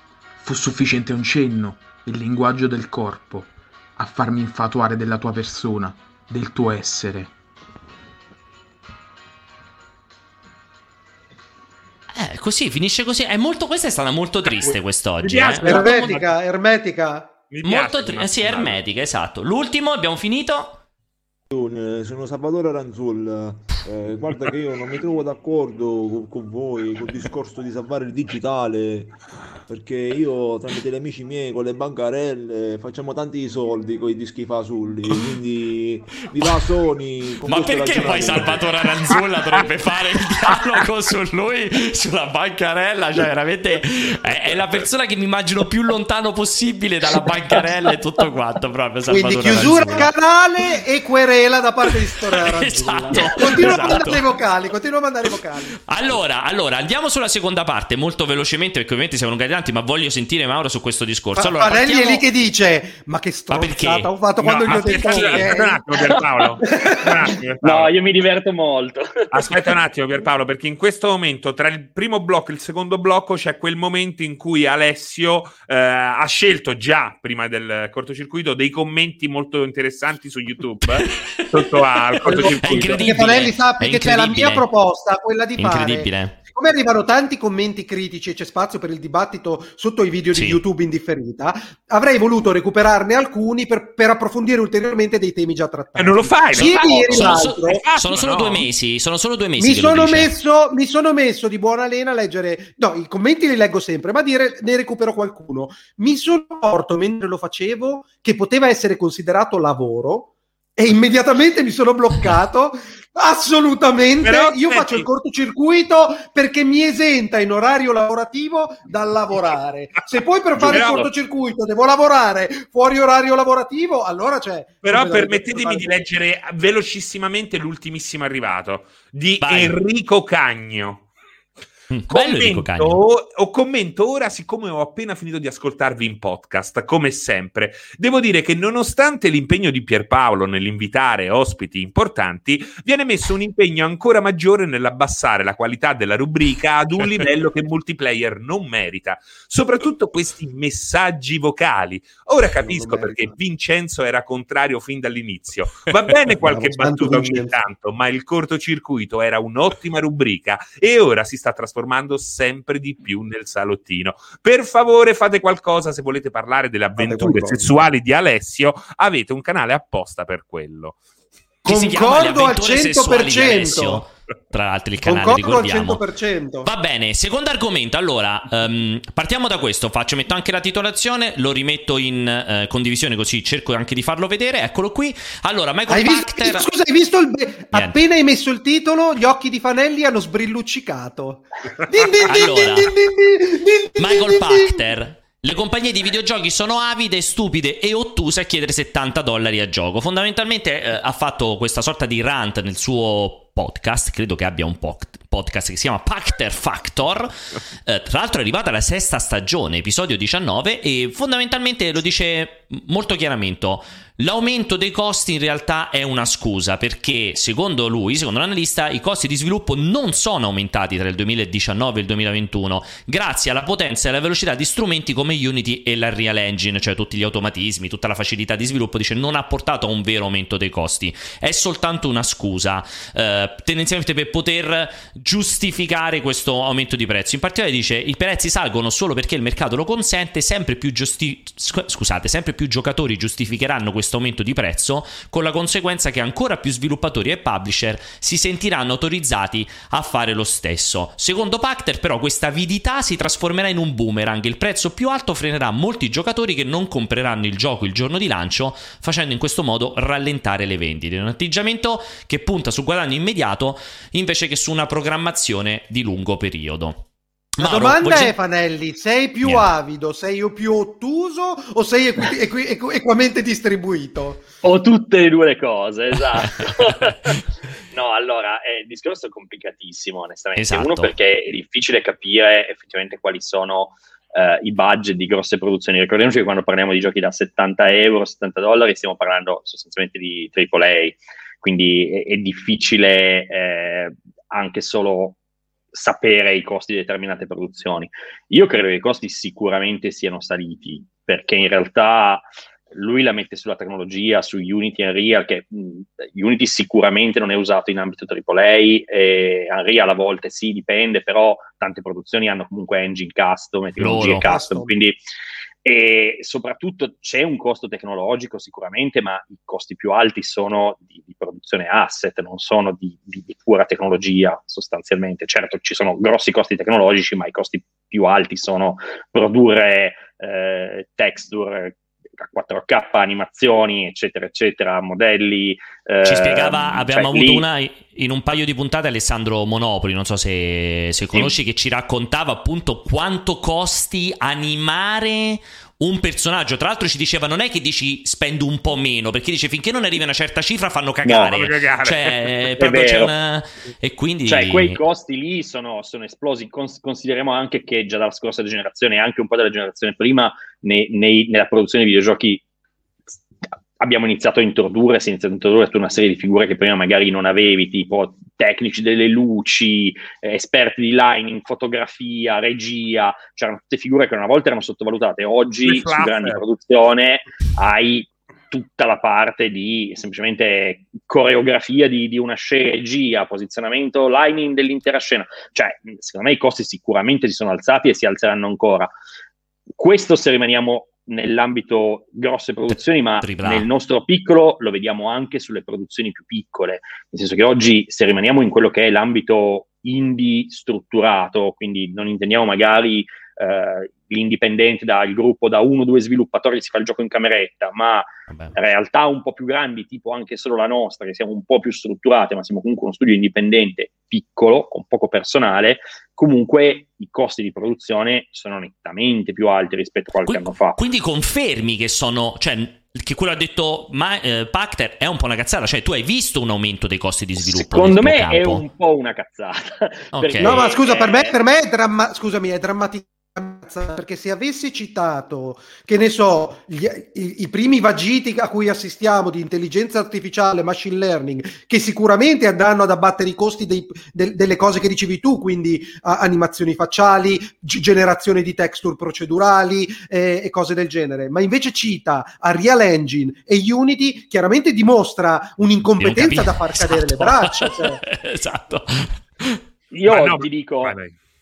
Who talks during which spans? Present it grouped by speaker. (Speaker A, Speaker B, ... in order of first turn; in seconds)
Speaker A: 0.4-7.3
Speaker B: 12.2-16.1, 17.6-20.8, 37.5-50.1, 52.4-54.2, 55.9-62.3, 63.5-64.1, 64.6-65.5, 80.9-84.7, 85.6-86.4, 90.3-90.6, 96.5-100.3, 129.4-129.8, 131.9-133.0, 171.7-176.0, 176.6-186.7, 187.7-188.0, 192.3-192.9, 194.0-267.0, 267.6-268.3, 269.4-269.7, 280.6-281.1, 314.0-314.5, 336.2-355.0, 392.9-393.9, 408.5-408.8, 420.5-428.8, 430.3-430.8, 456.2-459.8
Speaker C: 14.6-16.3, 17.5-18.8, 37.9-38.5, 64.4-67.9, 69.3-83.4, 96.0-98.7, 114.2-115.1, 120.7-121.1, 124.8-131.1, 132.1-171.0, 351.3-353.1, 375.9-376.6, 460.3-461.3
Speaker D: 15.6-17.3, 49.1-55.8, 61.4-65.8, 66.6-67.3, 82.3-97.8, 99.6-126.0, 152.6-153.3, 156.4-157.5, 167.0-167.7, 171.6-174.1, 175.0-176.7, 185.9-194.8, 267.6-274.4, 314.3-314.9, 430.6-458.2
Speaker E: 21.5-29.1, 29.7-38.6
Speaker F: 67.6-69.6, 120.7-121.0, 274.6-277.4, 277.9-295.4, 295.9-315.1, 315.8-337.6, 352.8-353.3, 354.5-362.6, 364.0-389.1, 390.0-421.0, 427.6-431.6, 460.1-461.2